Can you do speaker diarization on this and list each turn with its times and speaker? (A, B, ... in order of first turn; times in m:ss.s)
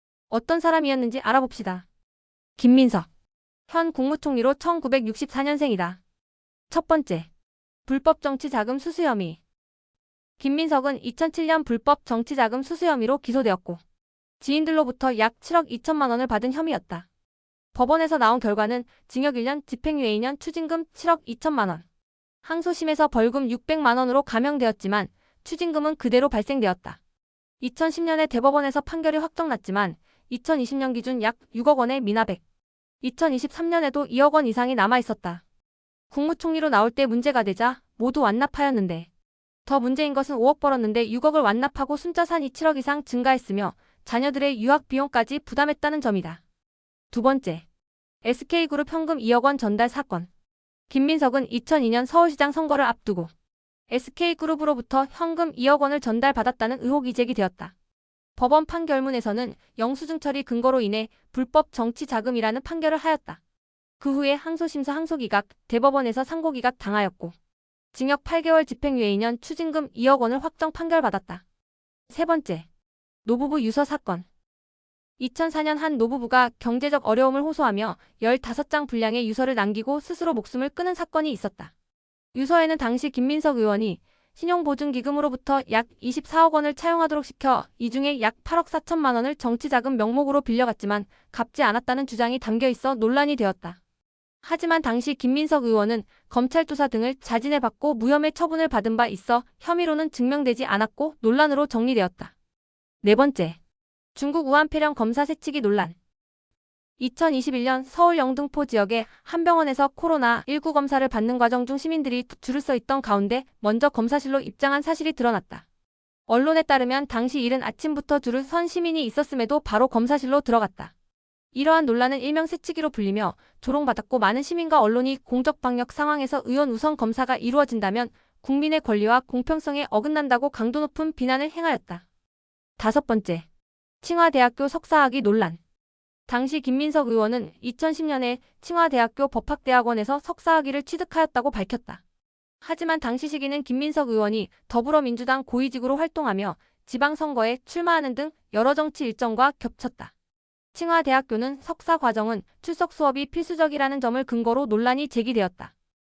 0:00.3-0:01.8 A
0:02.6-0:03.1 A
0:03.7-0:06.0 A
0:06.7-0:07.3 A
0:07.9-0:09.4 A
0:10.4-0:13.8 A
0:14.4-0:17.0 A
0:17.7-0:21.8 A
0:22.4-0:27.0 A
0:27.6-0:32.4 A
0:33.0-0:35.4 A
0:36.1-0:39.1 A
0:39.6-0:46.4 A
0:47.1-0:47.6 A
0:48.2-0:50.3 A
0:50.9-0:53.3 A
0:53.9-0:57.7 A
0:58.4-1:03.4 A
1:04.0-1:07.3 A
1:07.9-1:11.4 A
1:12.1-1:12.6 A
1:13.2-1:14.2 A
1:15.2-1:21.7 A
1:22.3-1:33.8 A
1:34.4-1:42.3 A
1:43.0-1:43.6 A
1:44.1-1:46.0 A
1:47.0-1:55.6 A
1:56.3-2:00.9 A
2:01.5-2:12.0 A
2:12.8-2:13.4 A
2:14.0-2:15.6 A
2:16.3-2:22.0 A
2:22.6-2:30.1 A
2:30.7-2:35.7 A